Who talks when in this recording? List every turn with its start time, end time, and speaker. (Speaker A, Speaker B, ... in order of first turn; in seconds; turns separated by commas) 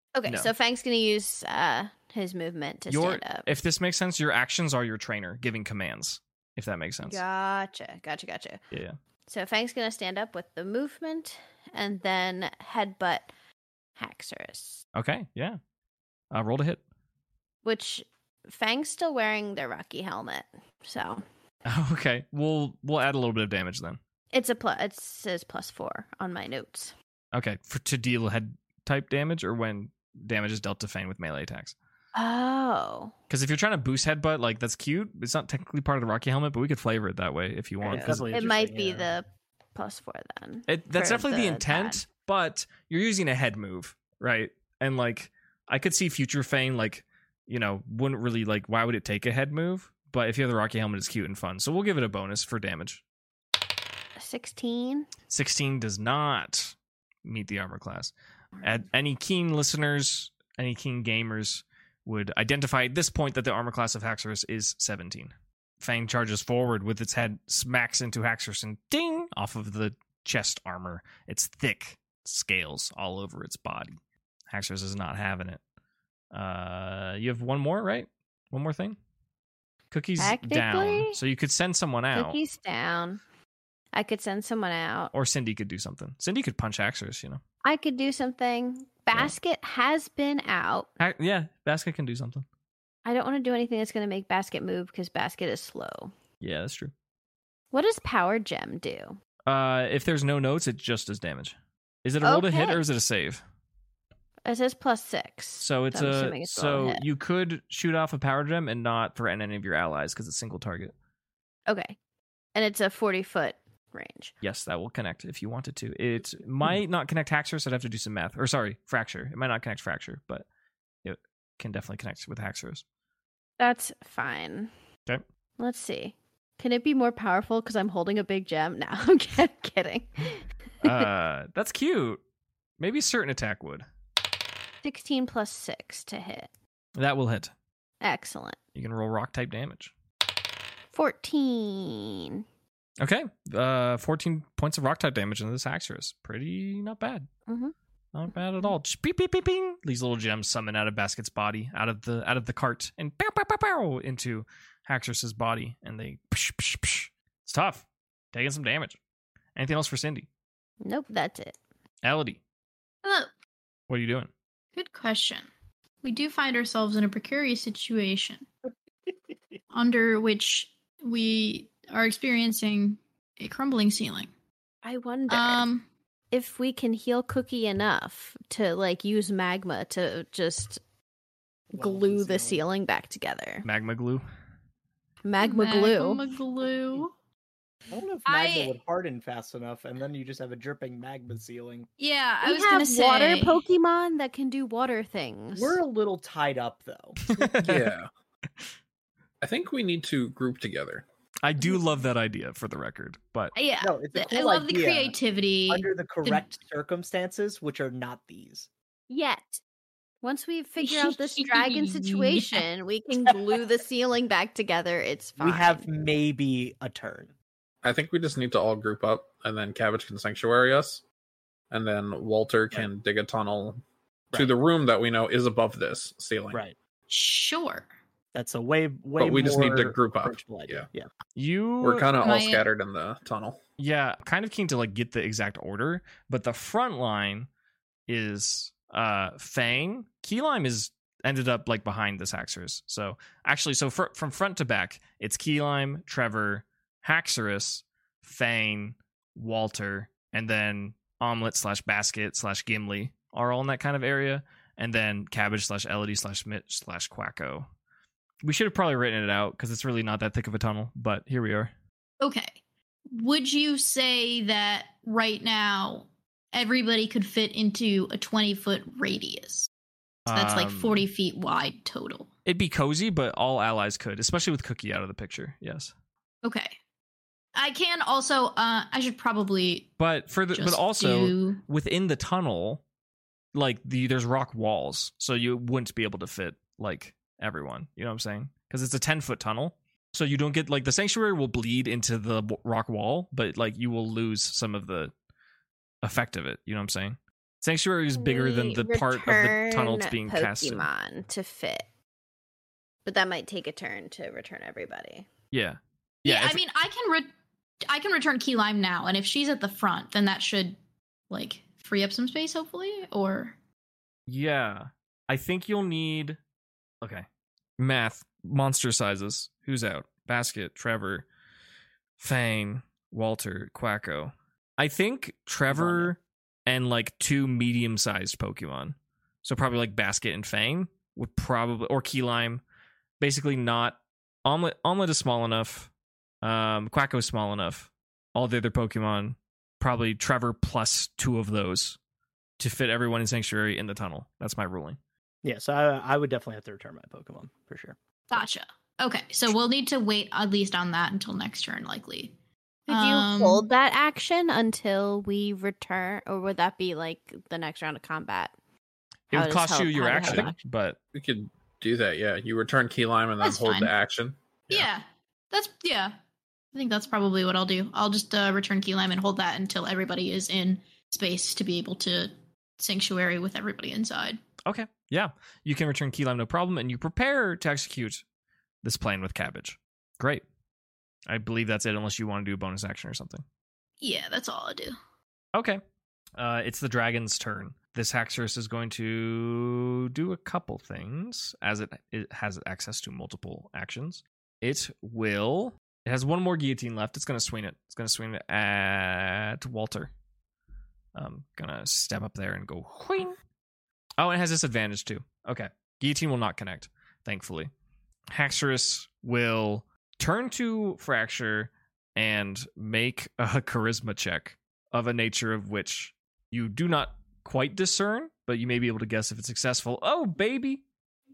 Speaker A: 0.1-3.5, Speaker B: 0.2-0.5, Speaker B: 2.9-7.2, Speaker A: 7.0-8.6, Speaker B: 8.7-9.0, Speaker A: 9.3-13.3, Speaker A: 14.0-14.8, Speaker B: 14.9-15.6, Speaker B: 16.3-16.8, Speaker A: 17.6-21.2, Speaker B: 21.6-24.0, Speaker A: 24.3-26.9, Speaker B: 27.3-31.7, Speaker A: 32.1-33.1, Speaker B: 33.3-38.2, Speaker A: 37.8-42.0, Speaker C: 37.9-39.1, Speaker B: 40.7-53.0, Speaker A: 54.2-55.1, Speaker B: 55.3-74.0, Speaker B: 74.5-75.6, Speaker B: 76.3-79.0, Speaker B: 79.9-82.4, Speaker A: 80.2-81.2, Speaker A: 82.1-83.2, Speaker A: 83.9-85.1, Speaker B: 85.1-87.4, Speaker A: 87.6-90.9, Speaker B: 91.0-92.4, Speaker A: 93.0-96.1, Speaker B: 96.4-96.9, Speaker A: 97.7-99.2, Speaker B: 99.5-103.4, Speaker A: 102.2-102.8, Speaker A: 104.4-107.0, Speaker B: 105.6-110.9, Speaker A: 111.7-112.0, Speaker A: 112.5-114.3, Speaker B: 114.4-120.5, Speaker B: 121.0-122.8, Speaker A: 123.6-124.7, Speaker A: 125.6-131.1, Speaker B: 130.8-132.2, Speaker B: 132.8-133.8, Speaker A: 134.8-136.5, Speaker B: 137.0-137.5, Speaker A: 138.0-138.6, Speaker B: 138.7-139.9, Speaker A: 140.9-142.4, Speaker B: 143.0-147.3, Speaker A: 147.5-147.7, Speaker B: 148.1-159.0, Speaker B: 159.6-160.3, Speaker A: 160.8-161.6, Speaker B: 162.0-162.4, Speaker D: 163.0-163.3, Speaker B: 163.9-164.3, Speaker D: 164.7-165.5, Speaker D: 166.0-168.4, Speaker D: 169.7-174.3, Speaker A: 174.8-175.6, Speaker D: 175.3-175.8, Speaker A: 176.3-180.8, Speaker C: 181.7-182.6, Speaker A: 181.7-183.7, Speaker B: 183.6-184.2, Speaker A: 185.2-186.2, Speaker D: 185.4-187.1, Speaker C: 187.9-191.9, Speaker D: 188.2-188.7, Speaker D: 192.0-193.6, Speaker A: 192.4-195.8, Speaker C: 195.5-197.6, Speaker B: 197.2-197.9, Speaker E: 197.6-198.1, Speaker E: 199.4-201.1, Speaker B: 201.4-203.5, Speaker D: 203.6-206.5, Speaker C: 203.8-205.2, Speaker C: 205.7-208.7, Speaker A: 209.1-209.6, Speaker A: 210.2-215.8, Speaker D: 210.8-212.7, Speaker C: 215.4-217.3, Speaker E: 217.8-221.0, Speaker E: 221.7-223.8, Speaker E: 224.3-226.6, Speaker D: 227.1-227.9, Speaker C: 228.3-231.1, Speaker E: 229.2-230.8, Speaker B: 231.3-232.1, Speaker E: 231.8-233.6, Speaker D: 232.2-232.6, Speaker B: 233.8-237.5, Speaker B: 238.1-257.7, Speaker B: 258.4-261.7, Speaker D: 262.2-262.6, Speaker D: 263.1-269.7, Speaker B: 270.2-271.1, Speaker D: 270.3-272.3, Speaker B: 272.4-275.9, Speaker D: 276.4-276.8, Speaker D: 277.6-279.9, Speaker B: 280.0-282.8, Speaker D: 280.5-281.6, Speaker B: 283.5-295.1, Speaker B: 296.0-300.9, Speaker A: 298.1-301.8, Speaker A: 303.1-305.3, Speaker B: 305.5-306.6, Speaker D: 306.2-307.3, Speaker D: 307.9-310.8, Speaker D: 311.3-313.6, Speaker B: 314.3-316.4, Speaker B: 317.8-321.3, Speaker B: 322.2-332.6, Speaker C: 325.7-326.1, Speaker B: 333.2-335.9, Speaker B: 336.4-342.0, Speaker B: 342.6-345.0, Speaker C: 345.4-347.9, Speaker D: 348.3-352.3, Speaker D: 352.9-353.6, Speaker A: 352.9-358.5, Speaker A: 359.3-360.6, Speaker B: 359.3-361.0, Speaker E: 361.1-364.8, Speaker D: 363.4-363.9, Speaker D: 364.7-366.1, Speaker D: 366.7-374.4, Speaker B: 374.6-378.2, Speaker B: 378.8-380.4, Speaker B: 381.3-383.4, Speaker D: 384.0-384.9, Speaker B: 385.6-385.8, Speaker B: 386.4-400.1, Speaker B: 401.1-403.4, Speaker B: 404.2-407.7, Speaker B: 408.3-420.8